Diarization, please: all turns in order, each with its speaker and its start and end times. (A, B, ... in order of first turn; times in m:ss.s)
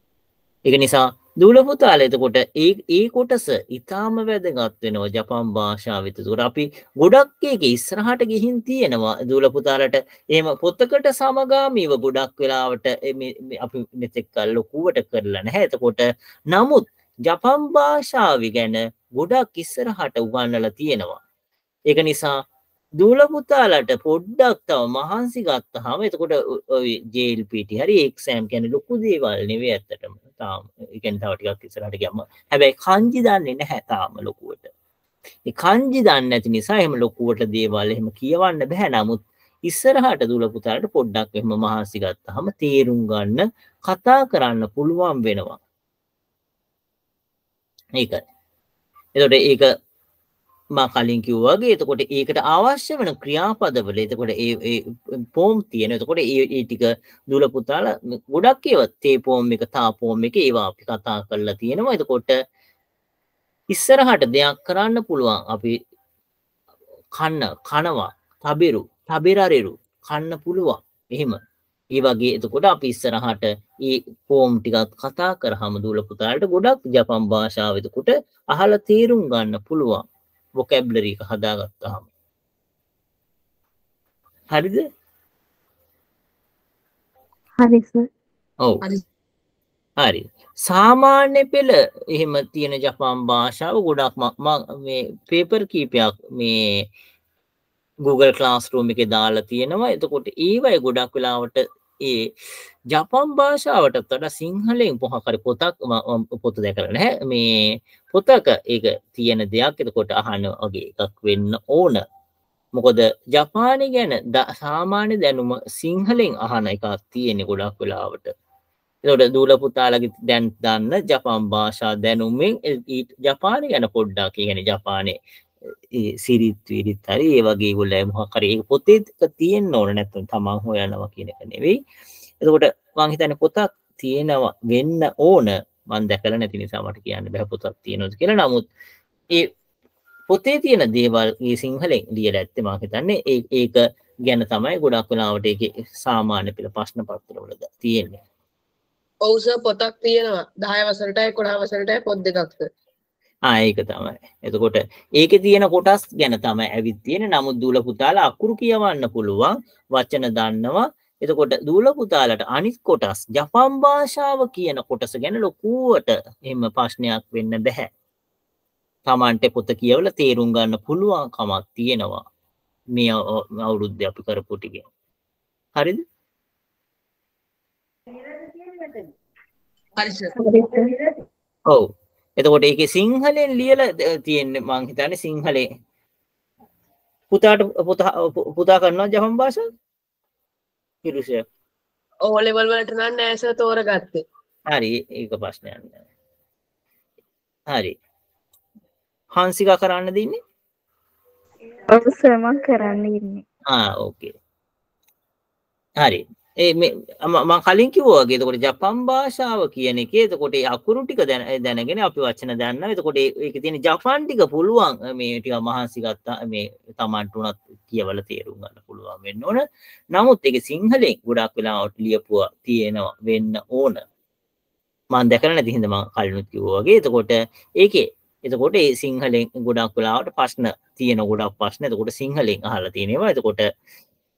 0:00.6-0:21.2 A
0:21.9-0:22.4 A
0:23.0-0:34.7 A
0:35.4-0:45.6 A
0:49.2-0:49.7 A
0:50.8-1:02.4 A
1:03.7-1:05.8 A
1:07.2-1:11.4 A
1:11.9-1:20.0 A
1:20.6-1:22.1 A
1:24.5-1:24.8 A
1:27.6-1:28.0 B
1:30.0-1:36.9 A
1:38.0-1:42.3 A
1:42.9-1:52.0 A
1:52.7-1:58.3 A
1:59.0-2:05.2 A
2:05.9-2:11.8 A
2:12.4-2:18.6 A
2:20.3-2:28.2 A
2:29.2-2:32.7 C
2:33.4-2:47.9 A
2:49.0-2:52.2 A
2:53.0-2:54.9 A
2:55.8-2:56.0 A
3:00.0-3:00.3 C
3:00.4-3:01.1 B
3:01.7-3:05.7 A
3:07.3-3:09.6 A
3:11.0-3:11.4 A
3:12.3-3:14.2 C
3:14.7-3:16.0 A
3:17.7-3:18.0 A
3:19.3-3:20.4 A
3:21.9-3:23.4 B
3:23.7-3:24.3 A
3:26.0-3:44.0 A
3:45.1-3:53.7 A